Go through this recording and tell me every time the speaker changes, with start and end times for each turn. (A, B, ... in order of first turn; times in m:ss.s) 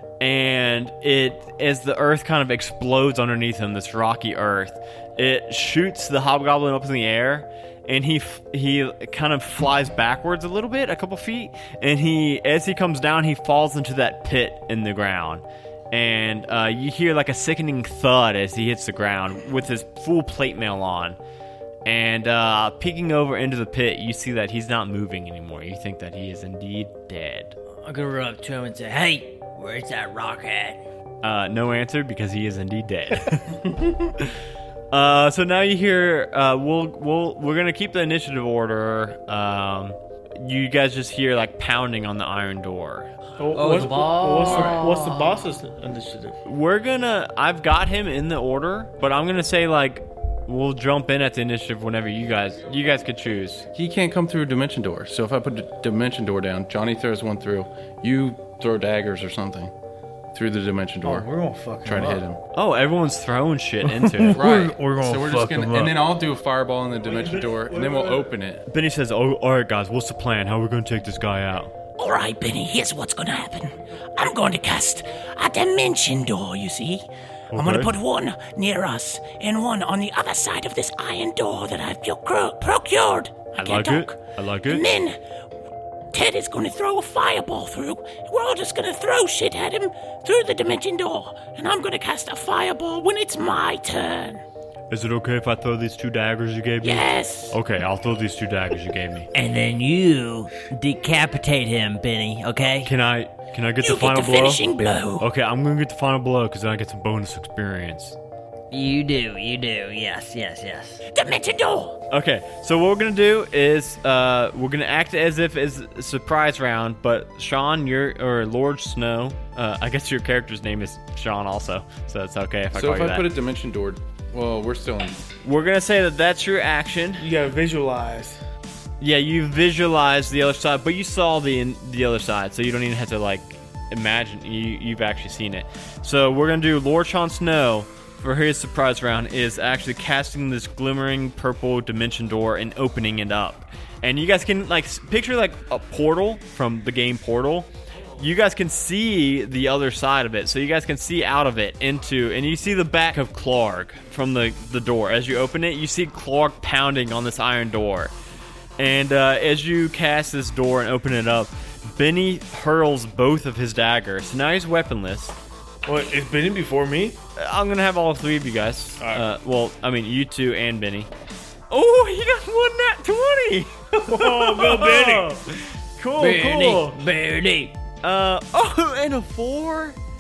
0:00.2-0:21.2 A
0:21.9-0:27.6 A
0:27.8-0:30.8 B
0:31.2-0:34.4 A
0:34.9-0:43.1 A
0:43.4-0:46.4 C
0:43.5-0:45.4 B
0:46.4-0:53.7 A
0:53.7-0:59.7 D
1:00.3-1:01.3 D
1:01.0-1:02.2 C
1:01.8-1:02.4 D
1:02.5-1:04.4 A
1:03.8-1:06.0 C
1:04.4-1:08.7 D
1:07.4-1:08.2 C
1:08.7-1:11.7 A
1:12.0-1:25.2 E
1:17.5-1:17.9 A
1:23.6-1:25.0 A
1:26.1-1:34.4 E
1:34.9-1:39.3 A
1:36.8-1:37.6 E
1:39.3-1:42.9 B
1:42.8-1:44.6 A
1:43.8-1:45.3 E
1:45.2-1:48.2 A
1:48.7-1:51.0 B
1:51.1-1:52.0 E
1:52.1-2:03.3 A
2:02.7-2:05.2 D
2:05.4-2:07.3 A
2:07.2-2:08.4 C
2:09.0-2:38.1 A
2:38.8-2:45.4 A
2:45.8-2:47.2 C
2:47.4-2:51.1 A
2:49.0-2:49.2 C
2:51.7-2:56.4 A
2:54.0-2:55.4 C
2:56.2-2:57.0 C
2:56.2-2:57.8 B
2:58.0-3:00.0 A